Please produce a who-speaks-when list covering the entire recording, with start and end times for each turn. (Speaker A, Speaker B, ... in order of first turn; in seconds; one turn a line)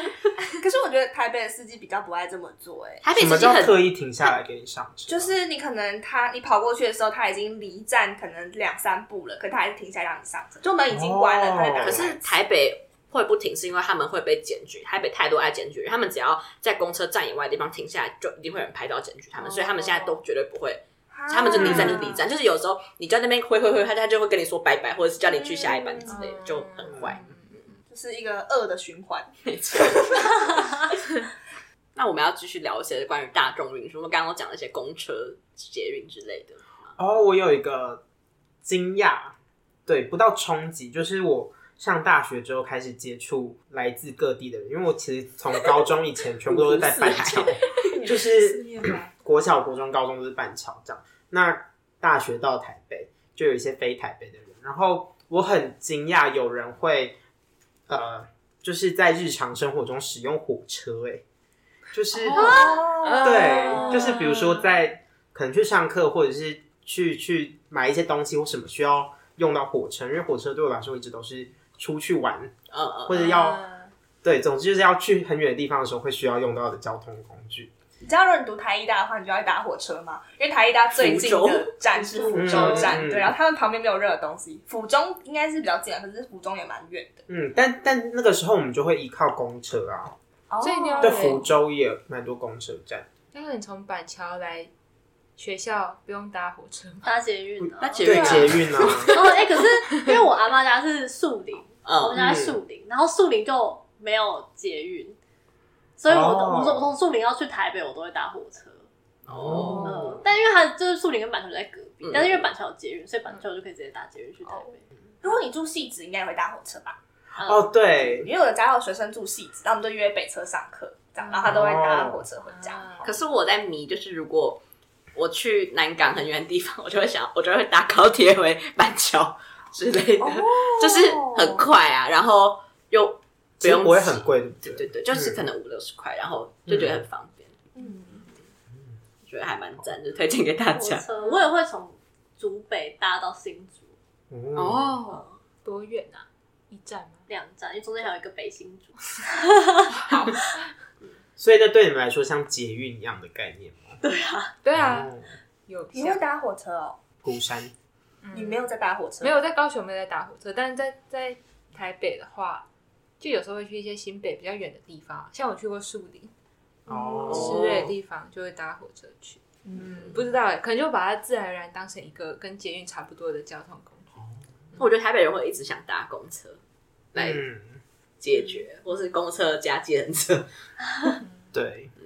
Speaker A: 0.6-3.0
Speaker B: 3.0-3.8
Speaker C: 3.1-5.3
Speaker A: 5.1-12.3
Speaker C: 10.9-12.1
Speaker B: 11.8-27.3
Speaker D: 19.4-20.2
Speaker A: 21.1-22.2
Speaker C: 21.6-22.0
Speaker D: 21.6-22.1
Speaker A: 25.2-26.2
Speaker D: 26.1-27.7
Speaker C: 26.9-27.2
Speaker A: 27.9-30.6
Speaker B: 29.5-30.8
Speaker B: 31.9-36.9
Speaker C: 37.0-38.0
Speaker C: 38.6-39.4
Speaker C: 39.9-57.2
Speaker B: 46.5-48.0
Speaker D: 48.0-49.1
Speaker C: 57.9-61.2
Speaker C: 61.9-72.5
Speaker D: 62.1-64.7
Speaker E: 62.3-62.9
Speaker A: 62.4-64.0
Speaker B: 72.7-73.3
Speaker C: 73.0-73.6
Speaker D: 73.1-73.9
Speaker C: 74.2-77.7
Speaker A: 78.0-87.2
Speaker B: 81.0-83.0
Speaker C: 82.3-83.3
Speaker C: 87.3-90.2
Speaker A: 90.5-91.4
Speaker D: 90.6-91.5
Speaker C: 91.0-93.1
Speaker D: 93.3-94.7
Speaker D: 95.4-97.2
Speaker E: 97.0-98.6
Speaker B: 97.8-99.4
Speaker C: 98.0-99.1
Speaker E: 99.1-105.2
Speaker D: 99.9-100.2
Speaker B: 101.8-102.2
Speaker C: 102.2-102.6
Speaker E: 106.0-108.9
Speaker C: 106.1-106.9
Speaker C: 109.3-109.9
Speaker B: 109.3-110.2
Speaker D: 109.5-110.1
Speaker E: 109.8-114.8
Speaker B: 112.0-112.5
Speaker A: 115.2-117.0
Speaker E: 117.4-117.7
Speaker C: 117.4-118.3
Speaker A: 118.0-122.9
Speaker D: 121.2-121.6
Speaker C: 121.4-122.2
Speaker D: 122.5-123.1
Speaker B: 123.0-124.6
Speaker B: 125.2-137.6
Speaker A: 130.2-131.6
Speaker C: 133.6-135.4
Speaker C: 136.7-137.0
Speaker A: 137.8-138.3
Speaker B: 139.2-141.1
Speaker E: 140.7-143.9
Speaker D: 141.2-141.5
Speaker C: 144.3-145.0
Speaker B: 144.6-145.2
Speaker E: 145.1-145.4
Speaker D: 145.6-147.3
Speaker E: 147.3-150.4
Speaker D: 149.9-150.6
Speaker C: 151.4-154.0
Speaker E: 154.0-154.5
Speaker D: 154.6-155.1
Speaker C: 154.7-155.3
Speaker D: 155.7-156.2
Speaker A: 155.9-157.0
Speaker C: 157.2-157.7
Speaker D: 158.2-162.7
Speaker A: 158.3-159.4
Speaker D: 163.2-166.3
Speaker C: 166.9-167.9
Speaker D: 166.9-174.2
Speaker B: 167.3-167.9
Speaker A: 169.7-169.9
Speaker B: 174.8-176.6
Speaker B: 177.1-177.4
Speaker C: 177.2-177.8
Speaker B: 178.2-180.5
Speaker C: 181.5-181.9